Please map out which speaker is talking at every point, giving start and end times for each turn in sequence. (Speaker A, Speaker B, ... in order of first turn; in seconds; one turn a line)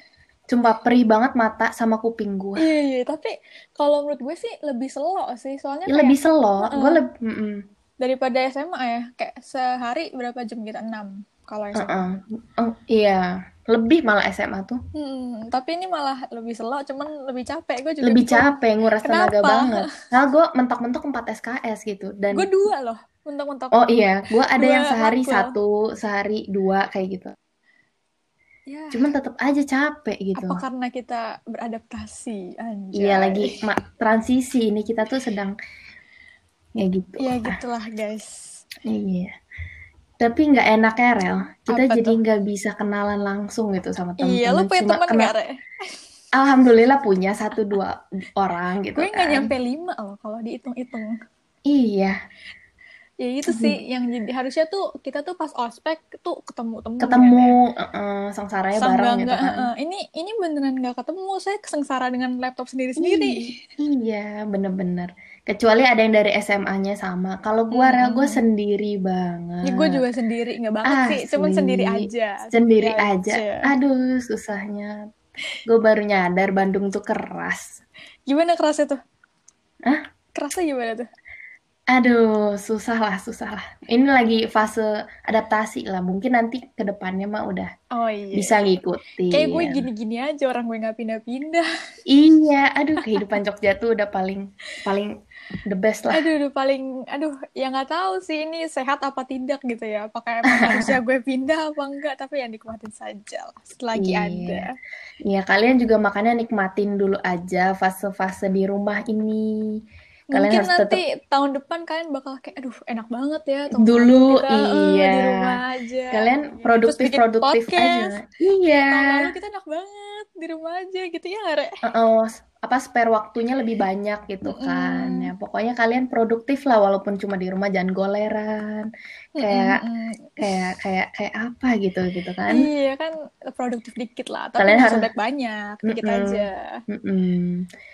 Speaker A: 0.5-2.7
Speaker B: 2.6-7.0
Speaker A: 5.9-7.6
Speaker B: 8.0-11.9
Speaker A: 11.7-14.8
Speaker B: 14.9-18.5
Speaker A: 18.0-22.5
Speaker B: 19.0-19.9
Speaker B: 22.3-23.8
Speaker A: 23.7-27.3
Speaker B: 24.5-25.5
Speaker B: 28.7-29.1
Speaker A: 28.9-30.6
Speaker B: 30.4-33.6
Speaker A: 33.0-35.5
Speaker A: 36.8-37.5
Speaker B: 37.2-38.5
Speaker A: 38.9-39.3
Speaker A: 40.2-45.3
Speaker B: 41.7-42.2
Speaker B: 44.2-45.5
Speaker A: 46.4-49.5
Speaker B: 49.0-51.2
Speaker A: 51.7-52.1
Speaker B: 53.2-57.5
Speaker A: 53.5-53.8
Speaker A: 57.0-59.7
Speaker B: 58.8-63.6
Speaker A: 63.0-70.0
Speaker B: 67.7-68.4
Speaker B: 69.6-73.7
Speaker A: 70.8-75.0
Speaker A: 75.7-77.8
Speaker B: 78.3-79.0
Speaker B: 80.3-81.1
Speaker A: 81.9-87.7
Speaker B: 87.9-88.7
Speaker A: 88.3-89.9
Speaker B: 89.3-91.7
Speaker A: 92.1-95.1
Speaker B: 93.0-93.4
Speaker A: 95.7-96.3
Speaker B: 96.1-104.7
Speaker A: 100.5-100.9
Speaker A: 103.9-104.7
Speaker A: 105.3-109.8
Speaker A: 110.3-111.0
Speaker B: 110.3-118.2
Speaker A: 113.8-115.6
Speaker A: 116.1-119.3
Speaker B: 118.9-121.7
Speaker A: 121.8-128.9
Speaker B: 124.4-125.3
Speaker B: 129.4-130.5
Speaker A: 129.4-129.8
Speaker A: 130.4-132.7
Speaker B: 132.5-136.7
Speaker A: 134.6-135.1
Speaker A: 135.9-137.7